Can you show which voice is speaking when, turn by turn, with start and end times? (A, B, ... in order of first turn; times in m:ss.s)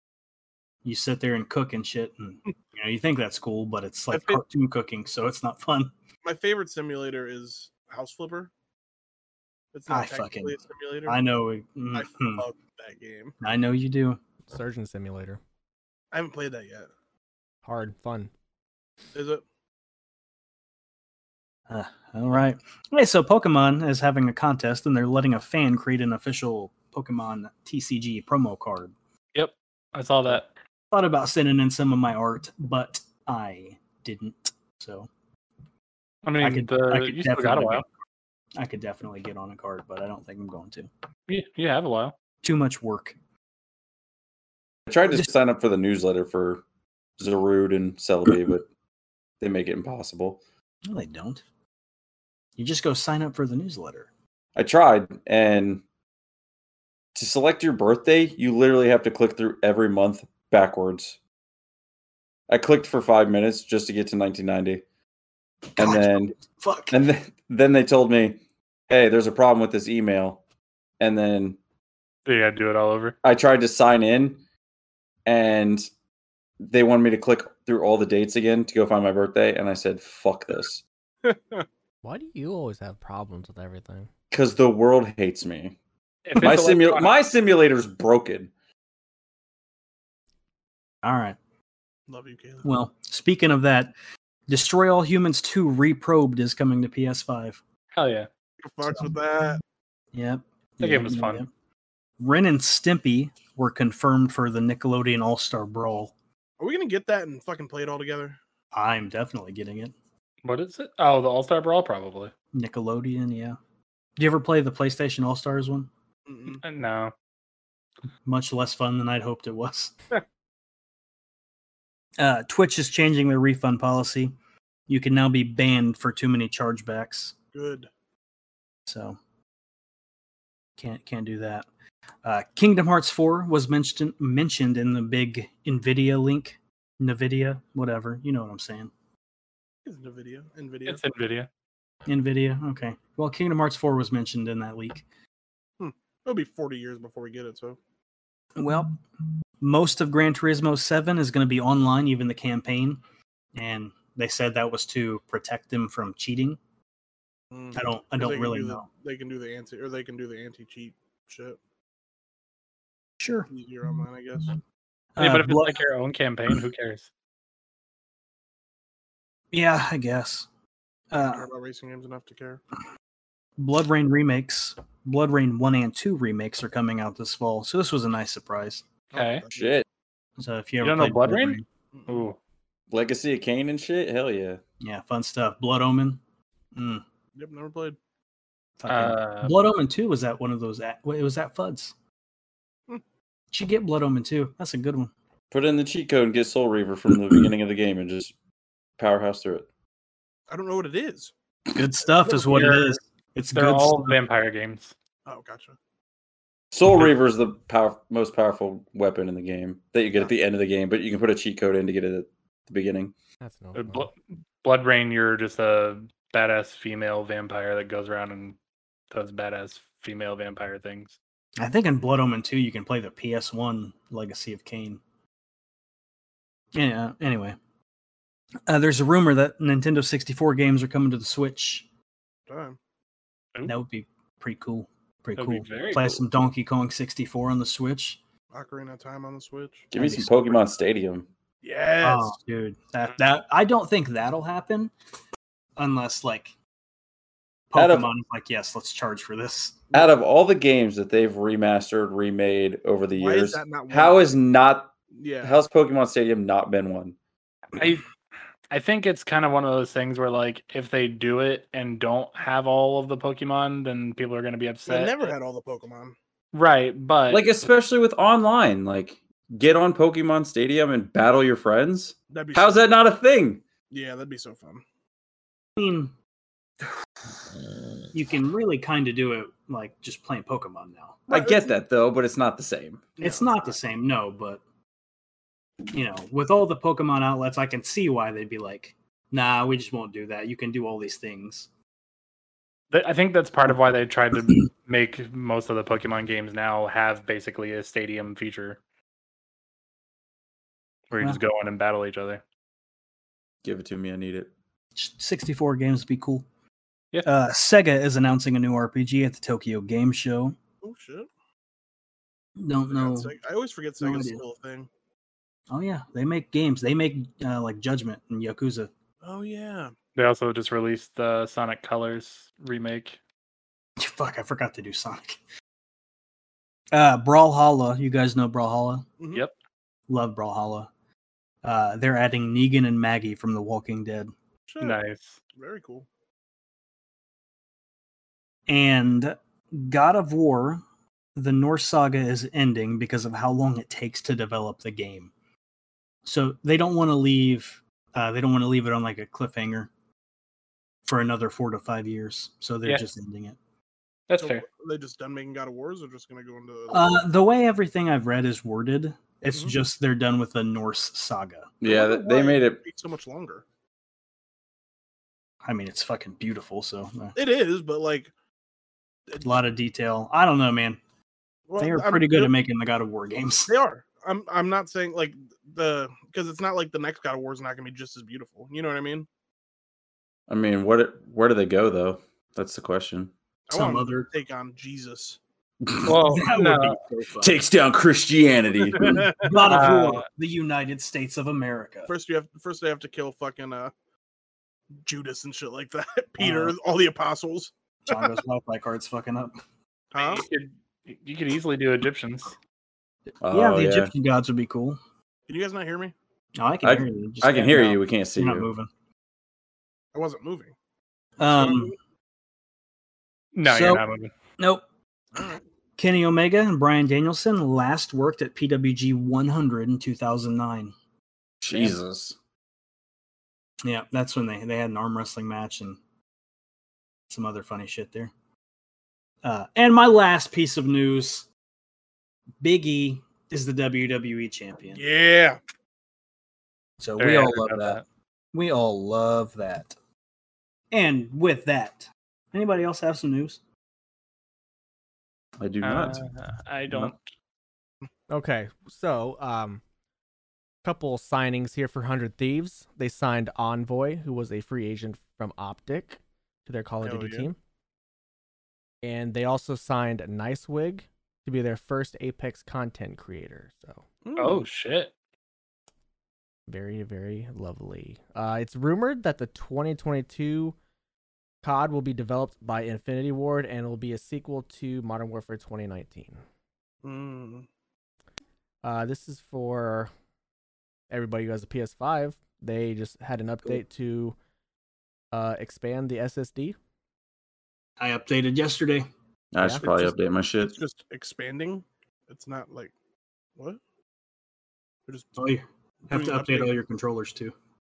0:00.8-0:05.9 A
0:04.1-0:04.4 B
0:06.2-0:08.5 B
0:09.7-0:11.2 B
0:09.9-0:12.4 A
0:11.9-0:13.3 B
0:13.4-0:14.2 A
0:14.5-0:15.4 C
0:16.1-0:16.9 B
0:17.6-0:18.3 C
0:19.1-0:19.4 B
0:21.7-0:28.9 A
0:29.3-0:30.5 D
0:30.9-0:35.1 A
0:36.2-0:37.8 D
0:36.4-0:37.9 A
0:38.6-0:40.9 A
0:41.3-0:42.2 D
0:42.4-0:43.1 A
0:44.9-0:46.6 E
0:45.0-0:45.3 A
0:47.2-0:48.6 E
0:49.4-0:50.4 E
0:50.8-0:51.4 A
0:52.6-0:54.1 A
0:54.6-0:55.8 E
0:57.1-1:01.2 E
1:02.5-1:04.8 E
1:05.7-1:07.0 A
1:05.8-1:06.4 E
1:06.9-1:10.4 E
1:11.0-1:11.6 E
1:12.2-1:13.2 D
1:13.2-1:14.4 E
1:15.2-1:15.9 E
1:16.6-1:20.8 E
1:21.2-1:21.6 B
1:22.0-1:24.1 C
1:24.3-1:25.8 E
1:26.2-1:27.2 D
1:26.3-1:28.5 E
1:31.0-1:31.4 A
1:32.1-1:32.7 B
1:32.6-1:33.9 A
1:34.5-1:37.6 A
1:37.9-1:38.3 D
1:38.6-1:39.6 B
1:40.1-1:41.5 A
1:40.8-1:41.4 D
1:42.2-1:46.1 A
1:46.6-1:48.4 B
1:48.7-1:49.9 A
1:50.4-1:52.3 D
1:52.5-1:53.6 A
1:54.2-1:55.9 A
1:56.3-1:56.6 B
1:56.6-1:57.1 D
1:58.2-1:59.9 A
2:02.2-2:04.3 A
2:04.9-2:07.4 A
2:07.5-2:07.9 B
2:08.9-2:09.2 A
2:10.8-2:11.7 A
2:12.2-2:18.9 A
2:19.8-2:21.0 B
2:20.8-2:21.5 D
2:22.1-2:25.0 A
2:25.8-2:27.8 B
2:28.6-2:29.0 A
2:29.6-2:33.0 A
2:33.5-2:36.6 A
2:37.5-2:41.6 B
2:37.7-2:38.9 A
2:43.2-2:43.5 A
2:43.5-2:44.6 B
2:45.2-2:45.8 A
2:45.2-2:47.1 D
2:49.5-2:50.5 A
2:51.1-2:51.5 A
2:51.2-2:52.6 B
2:53.6-2:58.8 A
2:59.1-2:59.8 B
2:59.1-2:59.4 D
2:59.5-2:59.8 E
3:00.4-3:01.6 A
3:00.8-3:02.4 D
3:01.9-3:02.2 B
3:02.9-3:04.6 E
3:04.8-3:06.2 A
3:06.7-3:07.0 A
3:07.4-3:08.0 B
3:08.8-3:11.9 A
3:08.9-3:09.6 D
3:13.5-3:15.1 A
3:15.5-3:18.3 E
3:19.0-3:19.7 E
3:20.5-3:21.3 B
3:21.7-3:24.2 A
3:22.3-3:23.0 D
3:23.5-3:24.9 D
3:25.2-3:25.8 B
3:26.7-3:33.1 E
3:33.4-3:34.1 C
3:33.7-3:38.6 D
3:39.1-3:41.2 D
3:41.6-3:45.0 A
3:46.7-3:47.6 A
3:48.7-3:51.8 A
3:52.5-3:52.8 B
3:53.6-3:58.2 A
3:55.4-3:56.2 D
3:58.5-3:59.9 B
3:59.9-4:01.3 E
3:59.9-4:00.6 A
4:01.6-4:02.4 B
4:02.0-4:04.9 A
4:05.8-4:06.5 A
4:07.7-4:09.9 A
4:07.8-4:08.1 E
4:09.9-4:17.2 E
4:13.2-4:14.3 B
4:15.1-4:15.6 B
4:17.8-4:18.0 D
4:18.7-4:25.3 D
4:24.8-4:26.1 B
4:26.5-4:27.4 D
4:27.3-4:33.6 E
4:32.3-4:32.8 B
4:33.9-4:34.8 B
4:35.8-4:36.1 A
4:38.1-4:41.2 A
4:41.3-4:41.7 B
4:41.3-4:43.1 E
4:43.2-4:43.7 B
4:43.2-4:44.6 A
4:45.9-4:51.7 A
4:52.9-4:58.8 D
5:01.1-5:02.4 D
5:03.6-5:04.5 E
5:05.0-5:06.4 A
5:07.2-5:10.6 A
5:10.8-5:11.3 B
5:12.6-5:13.3 A
5:12.9-5:14.9 B
5:14.0-5:14.4 A
5:15.7-5:18.9 A
5:19.2-5:19.9 B
5:20.2-5:23.2 D
5:24.0-5:25.4 A
5:26.9-5:29.1 A
5:30.1-5:30.9 A
5:31.6-5:34.3 A
5:34.7-5:35.0 B
5:34.8-5:35.4 D
5:35.6-5:36.1 B
5:38.7-5:40.8 A
5:41.4-5:45.3 A
5:46.2-5:49.9 A
5:51.0-5:53.6 A
5:54.3-5:54.6 D
5:54.4-5:57.2 B
5:56.9-6:01.7 A
6:01.8-6:02.8 E
6:01.8-6:03.6 B
6:05.6-6:07.3 A
6:07.3-6:08.3 B
6:09.4-6:11.0 A
6:11.7-6:12.5 B
6:11.8-6:13.7 A
6:13.7-6:19.3 B
6:20.5-6:23.3 E
6:23.7-6:25.4 B
6:23.7-6:24.3 A
6:26.0-6:27.0 D
6:26.0-6:27.6 A
6:27.4-6:29.3 E
6:28.9-6:29.6 B
6:29.4-6:32.1 A
6:29.6-6:30.2 D
6:32.1-6:33.9 B
6:35.0-6:38.3 B
6:36.4-6:36.7 A
6:38.1-6:39.5 A
6:40.1-6:40.4 B
6:40.2-6:42.6 D
6:43.4-6:44.1 E
6:43.5-6:45.0 A
6:45.5-6:46.1 B
6:46.6-6:48.9 A
6:46.8-6:48.7 E
6:50.1-6:50.7 B
6:51.4-6:51.9 A
6:51.4-6:51.9 B
6:53.5-6:54.3 D
6:53.6-6:54.0 A
6:56.0-7:00.9 A
7:01.6-7:02.4 E
7:03.8-7:06.0 A
7:07.3-7:08.3 A
7:09.4-7:11.5 A
7:12.6-7:15.0 A
7:14.9-7:15.6 B
7:17.0-7:18.0 A
7:17.2-7:18.0 D
7:18.5-7:19.9 A
7:20.9-7:23.6 A
7:25.6-7:26.2 E
7:25.8-7:27.2 D
7:28.3-7:29.8 C
7:30.8-7:37.6 C
7:37.0-7:37.5 B
7:39.0-7:44.0 C
7:44.2-7:44.6 B
7:44.4-7:45.1 D
7:46.7-7:50.8 C
7:51.6-7:56.4 C
7:57.0-7:57.7 B
7:58.8-8:00.1 C
8:01.1-8:04.4 C
8:05.3-8:06.8 C
8:08.0-8:09.1 A
8:09.5-8:10.8 E
8:09.6-8:09.9 C
8:09.8-8:12.9 B
8:15.1-8:15.3 B
8:15.4-8:17.5 A
8:16.1-8:16.7 B